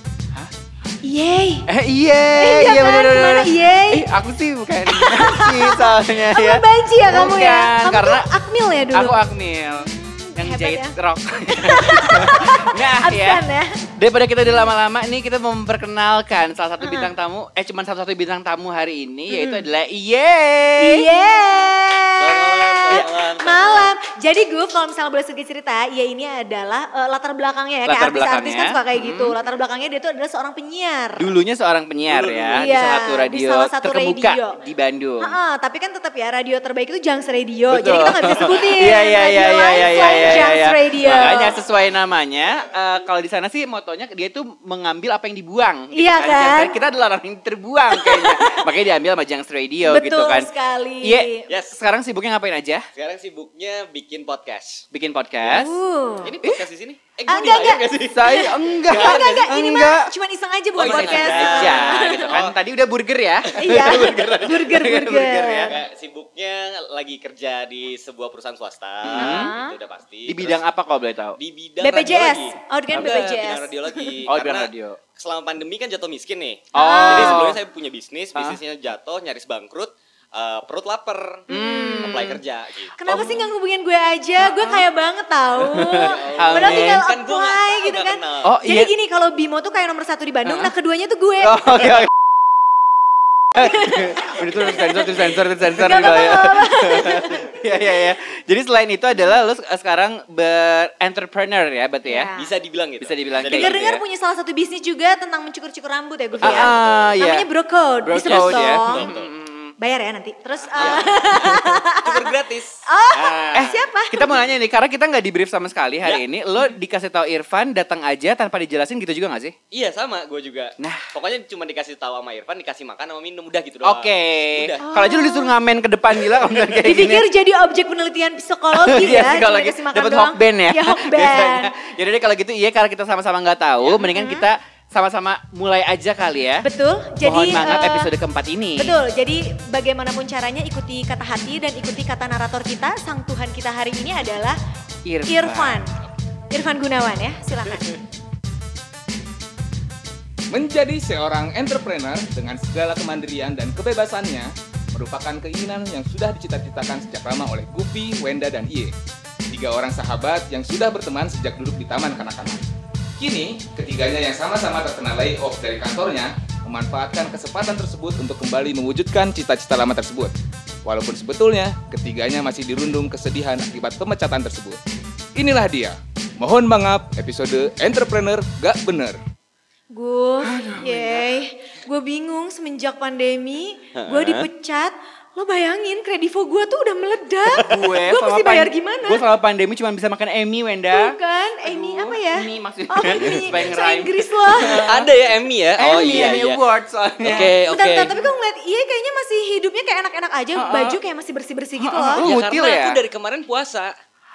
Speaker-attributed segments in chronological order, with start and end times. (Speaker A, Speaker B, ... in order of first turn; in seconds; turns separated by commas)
Speaker A: 1.0-1.7, Speaker B: 1.7-8.3, Speaker A: 2.4-4.1, Speaker A: 4.9-9.2, Speaker B: 8.9-13.4, Speaker A: 9.7-10.9, Speaker A: 11.5-13.7, Speaker B: 14.0-21.1, Speaker A: 16.8-17.1, Speaker A: 19.3-19.6, Speaker A: 20.8-31.2, Speaker C: 22.2-23.9, Speaker B: 27.9-29.4, Speaker B: 31.2-35.3, Speaker C: 32.1-32.7, Speaker A: 32.6-34.6, Speaker A: 35.2-41.6, Speaker B: 37.7-50.5, Speaker A: 45.9-46.8, Speaker A: 48.0-48.6, Speaker A: 49.9-51.5, Speaker B: 51.0-52.9, Speaker C: 51.5-51.8, Speaker C: 53.0-54.9, Speaker B: 54.9-55.8, Speaker A: 55.5-56.3, Speaker C: 56.2-59.5, Speaker A: 57.3-62.3, Speaker B: 58.0-60.1, Speaker C: 60.8-62.6, Speaker B: 60.8-65.8, Speaker A: 63.6-65.7, Speaker C: 65.7-70.6, Speaker B: 69.0-69.5, Speaker A: 69.2-69.8, Speaker B: 70.3-71.4, Speaker C: 71.4-81.5, Speaker A: 71.8-74.2, Speaker B: 74.3-75.0, Speaker A: 76.7-77.5, Speaker B: 76.7-77.6, Speaker A: 81.5-82.4, Speaker B: 81.5-82.4, Speaker C: 82.0-82.9, Speaker A: 83.0-91.7, Speaker B: 83.1-83.5, Speaker B: 84.4-84.8, Speaker B: 85.7-87.0, Speaker C: 85.9-88.5, Speaker B: 88.4-88.9, Speaker B: 91.5-92.1, Speaker B: 93.6-102.3, Speaker A: 94.6-97.4, Speaker A: 102.1-102.5, Speaker C: 102.4-104.0, Speaker B: 103.0-103.9, Speaker A: 103.5-109.1, Speaker C: 106.4-107.2, Speaker B: 106.4-107.5, Speaker B: 108.0-109.7, Speaker C: 108.2-109.3, Speaker A: 109.8-112.2, Speaker B: 110.7-111.2, Speaker C: 110.8-113.7, Speaker A: 112.9-114.4, Speaker B: 113.5-119.5, Speaker C: 119.7-124.8, Speaker B: 120.8-121.1, Speaker B: 123.8-127.3, Speaker A: 124.8-125.5, Speaker A: 126.8-131.7, Speaker B: 128.7-136.7, Speaker A: 133.9-134.5, Speaker A: 136.6-138.1, Speaker B: 137.2-139.0, Speaker A: 138.8-144.6, Speaker B: 145.1-146.0, Speaker A: 145.3-145.9, Speaker A: 146.5-147.8, Speaker D: 150.5-158.9, Speaker D: 159.5-162.6, Speaker D: 163.2-170.3, Speaker D: 170.8-174.8, Speaker D: 175.3-179.2, Speaker A: 179.9-189.2, Speaker B: 180.4-181.3, Speaker C: 184.0-184.5, Speaker B: 187.6-195.1, Speaker A: 190.9-194.8, Speaker C: 194.6-196.6, Speaker B: 195.8-197.5, Speaker C: 197.2-198.2, Speaker A: 197.7-202.3, Speaker B: 200.6-201.0, Speaker B: 201.8-203.0, Speaker C: 202.2-203.9